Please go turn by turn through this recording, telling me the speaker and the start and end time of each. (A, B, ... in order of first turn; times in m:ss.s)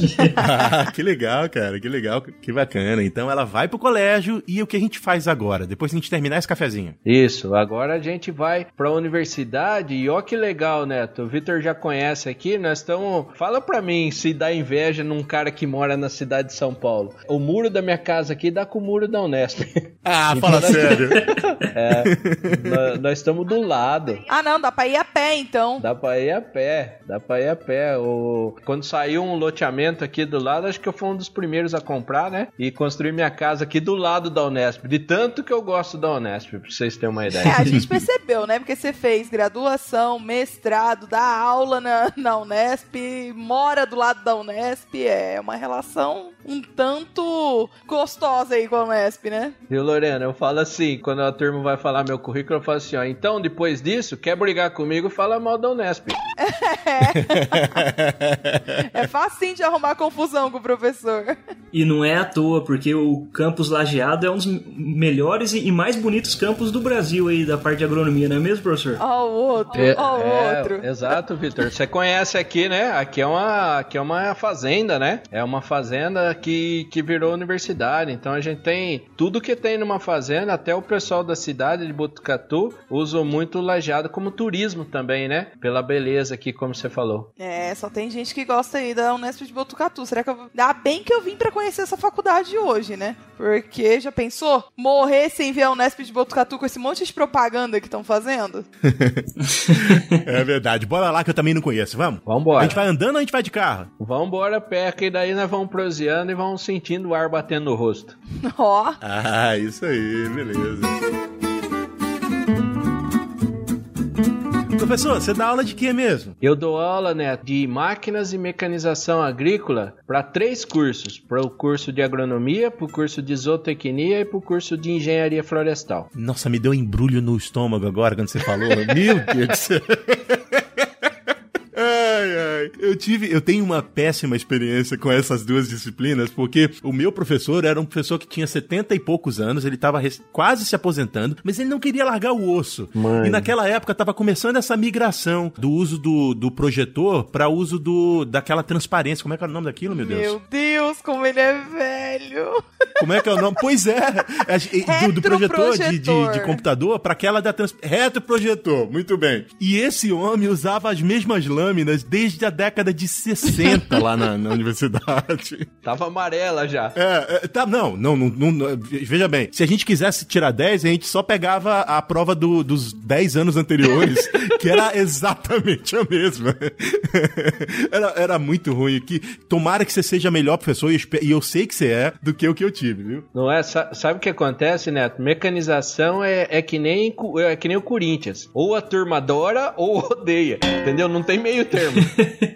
0:00.3-0:07.0 A
0:07.0-0:24.2 B
0:20.1-0:21.3 A
0:21.9-0:23.0 A
0:24.3-0:25.9 C
0:25.8-0:37.6 B
0:37.4-0:49.6 C
0:49.7-0:56.2 B
0:56.4-0:57.9 C
0:57.2-0:58.8 A
0:58.8-1:01.4 C
1:01.7-1:09.0 D
1:09.0-1:10.9 C
1:09.7-1:27.3 B
1:27.4-1:38.7 C
1:38.8-1:39.3 A
1:40.1-1:43.9 A
1:42.3-1:42.8 B
1:44.0-1:48.2 B
1:48.4-1:49.0 C
1:49.0-1:51.0 A
1:54.7-1:56.4 A
1:56.4-2:06.1 B
2:06.1-2:10.8 A
2:11.7-2:30.4 A
2:23.0-2:23.5 B
2:29.9-2:33.0 C
2:33.0-2:45.7 A
2:34.8-2:36.6 C
2:45.8-2:47.0 B
2:47.0-3:03.3 A
3:03.3-3:12.3 B